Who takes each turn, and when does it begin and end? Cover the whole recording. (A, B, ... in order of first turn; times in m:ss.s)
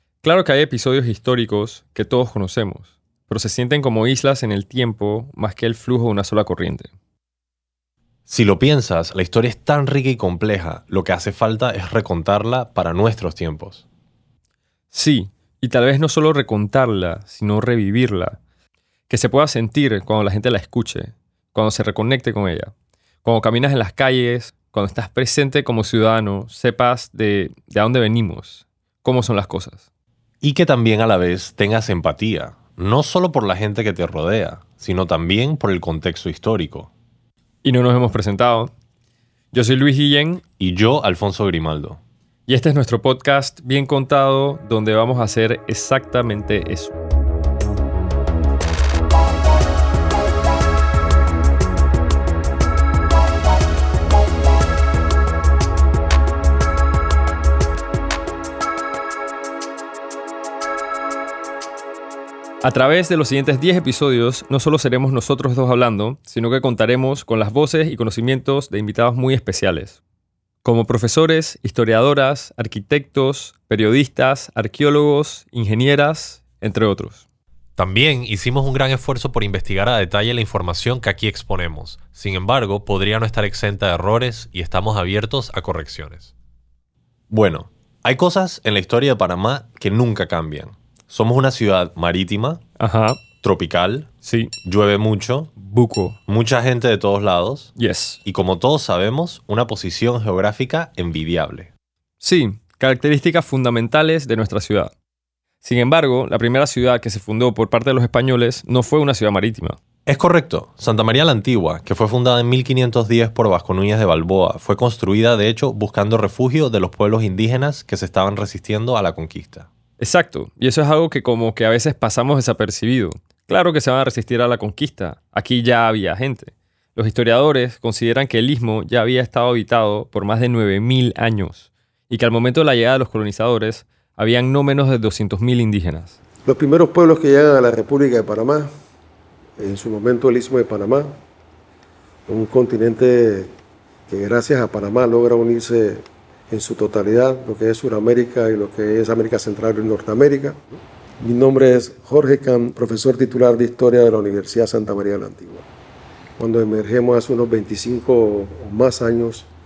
0:00.2-0:06.9 A
0:08.3-0:13.8 B
0:14.9-0:18.4 A
0:19.1-0:22.7 A
0:23.2-0:29.8 A
0:30.4-0:36.9 B
0:37.6-0:38.7 A
0:39.5-0:40.4 A
0:40.6-0:42.0 B
0:42.5-0:47.0 A
1:02.6-1:10.0 A
1:10.6-1:17.2 A
1:17.8-1:26.3 B
1:27.3-1:32.6 B
1:32.8-1:33.2 A
1:33.4-1:34.1 B
1:34.2-1:34.5 A
1:34.6-1:35.5 B
1:35.6-1:36.2 A
1:36.3-1:37.7 B
1:37.8-1:38.2 A
1:38.2-1:41.7 B
1:42.2-1:44.9 A
1:45.6-1:49.8 A
1:50.1-1:59.7 B
2:00.0-2:16.2 A
2:16.4-2:18.7 C
2:19.6-2:21.2 C
2:22.3-2:23.5 C
2:24.1-2:30.6 C
2:31.2-2:35.7 C
2:36.4-2:39.5 C